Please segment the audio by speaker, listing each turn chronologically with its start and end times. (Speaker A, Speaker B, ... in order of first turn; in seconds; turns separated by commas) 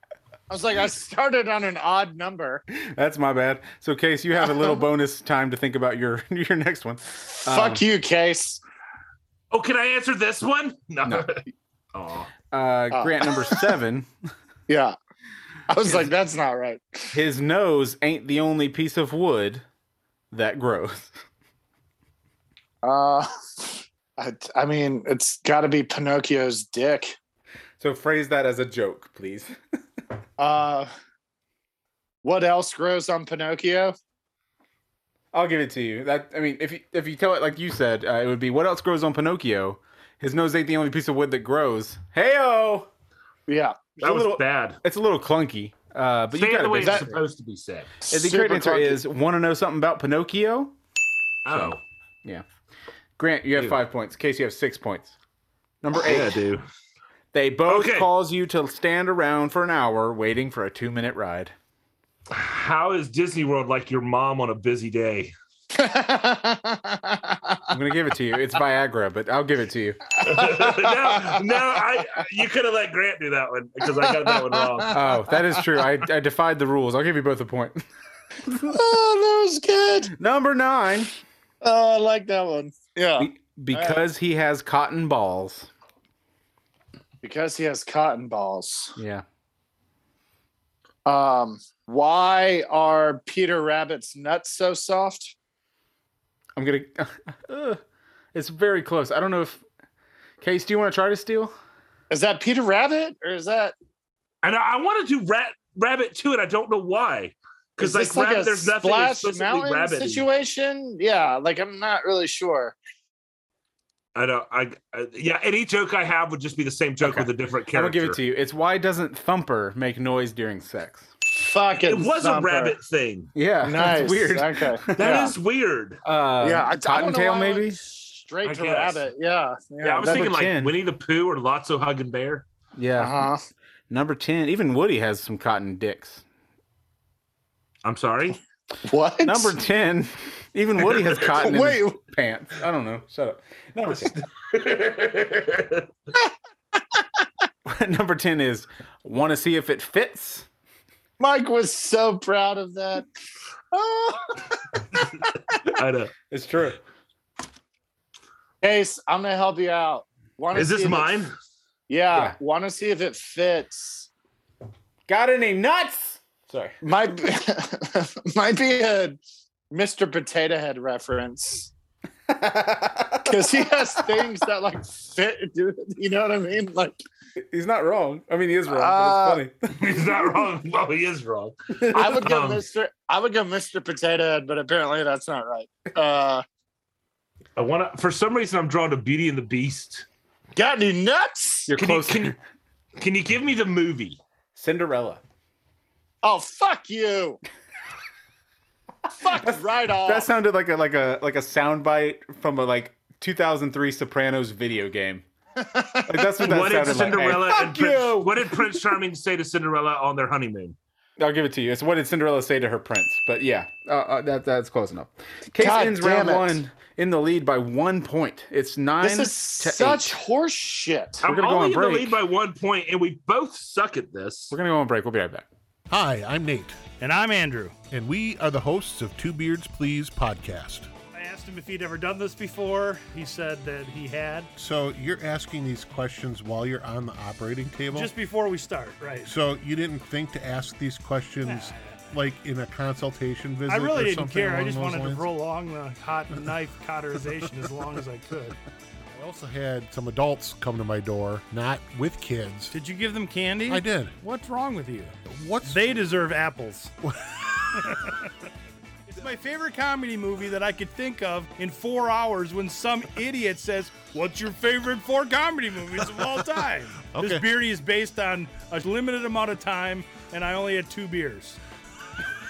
Speaker A: 0.5-2.6, Speaker B: 2.7-7.8, Speaker A: 7.3-8.6, Speaker C: 9.5-11.4, Speaker C: 11.9-12.3, Speaker B: 12.5-14.1, Speaker A: 12.9-13.3, Speaker A: 14.7-14.9, Speaker A: 15.7-17.1, Speaker B: 17.1-19.6, Speaker B: 20.3-21.1, Speaker A: 22.8-27.1, Speaker B: 27.8-29.6, Speaker A: 30.4-30.9, Speaker A: 32.2-33.9, Speaker B: 35.3-42.9, Speaker A: 43.5-43.8, Speaker B: 44.0-47.2, Speaker C: 44.0-44.8, Speaker C: 46.3-47.9, Speaker A: 46.8-47.1, Speaker A: 48.0-49.0, Speaker B: 48.1-50.7, Speaker C: 51.4-51.8, Speaker B: 51.5-52.4, Speaker B: 53.2-55.1, Speaker B: 55.8-56.4, Speaker C: 55.9-56.6, Speaker B: 57.3-61.5, Speaker C: 57.7-58.1, Speaker C: 62.3-65.3, Speaker A: 65.7-67.6, Speaker B: 67.7-70.0, Speaker C: 70.2-75.0, Speaker A: 70.3-70.9, Speaker A: 74.0-74.9, Speaker B: 74.9-77.8, Speaker B: 78.5-78.7, Speaker A: 78.7-80.1, Speaker B: 80.2-81.1, Speaker A: 81.6-84.0, Speaker B: 83.2-85.7, Speaker A: 87.2-89.0, Speaker B: 89.0-89.2, Speaker A: 91.0-95.3, Speaker B: 96.5-97.8, Speaker B: 98.3-99.6, Speaker B: 100.4-101.5, Speaker A: 102.1-103.7, Speaker C: 104.4-110.2, Speaker A: 107.8-112.8, Speaker C: 114.1-118.2, Speaker B: 117.0-121.1, Speaker A: 121.3-122.7, Speaker C: 121.8-123.3, Speaker B: 123.3-125.3, Speaker A: 123.6-125.3, Speaker C: 125.0-126.0, Speaker B: 126.0-127.8, Speaker A: 126.4-130.3, Speaker C: 128.4-129.1, Speaker C: 129.8-132.4, Speaker B: 130.0-130.8, Speaker B: 132.8-133.3, Speaker A: 133.0-133.4, Speaker B: 133.9-136.2, Speaker C: 137.8-138.4, Speaker A: 138.9-139.6, Speaker B: 139.2-144.1, Speaker A: 141.3-142.0, Speaker C: 144.0-145.8, Speaker B: 147.6-150.5, Speaker A: 151.2-153.0, Speaker A: 153.7-155.2, Speaker C: 155.6-156.1, Speaker B: 156.3-156.8, Speaker A: 158.6-161.2, Speaker C: 160.5-161.3, Speaker A: 161.9-164.1, Speaker B: 165.1-166.7, Speaker A: 166.8-169.2, Speaker A: 169.7-171.7, Speaker B: 172.3-174.2, Speaker A: 173.2-177.0, Speaker B: 177.4-179.9, Speaker A: 178.7-179.4, Speaker C: 179.8-182.6, Speaker B: 181.8-182.1, Speaker A: 181.9-186.4, Speaker C: 187.6-190.1, Speaker A: 190.6-191.7, Speaker B: 191.7-192.3, Speaker C: 191.8-192.4, Speaker C: 193.0-194.2, Speaker B: 194.5-195.2, Speaker A: 196.2-197.4, Speaker A: 199.1-200.3, Speaker B: 200.0-205.2, Speaker A: 205.6-206.2, Speaker B: 206.1-208.8, Speaker C: 206.4-210.8, Speaker B: 211.2-220.2, Speaker A: 215.6-216.6, Speaker A: 219.0-221.2, Speaker C: 221.2-224.5, Speaker B: 221.2-222.2, Speaker B: 224.5-225.5, Speaker D: 225.9-226.8, Speaker E: 227.0-227.8, Speaker D: 227.9-230.9, Speaker E: 231.1-234.5, Speaker D: 234.6-238.1, Speaker E: 237.9-239.3, Speaker D: 239.2-245.3, Speaker E: 241.4-242.1, Speaker E: 243.7-248.6, Speaker D: 249.1-252.8, Speaker E: 252.7-256.9, Speaker D: 253.7-254.2, Speaker D: 255.3-256.0, Speaker D: 257.1-258.1, Speaker E: 257.8-258.2, Speaker E: 259.1-271.6, Speaker D: 267.1-267.5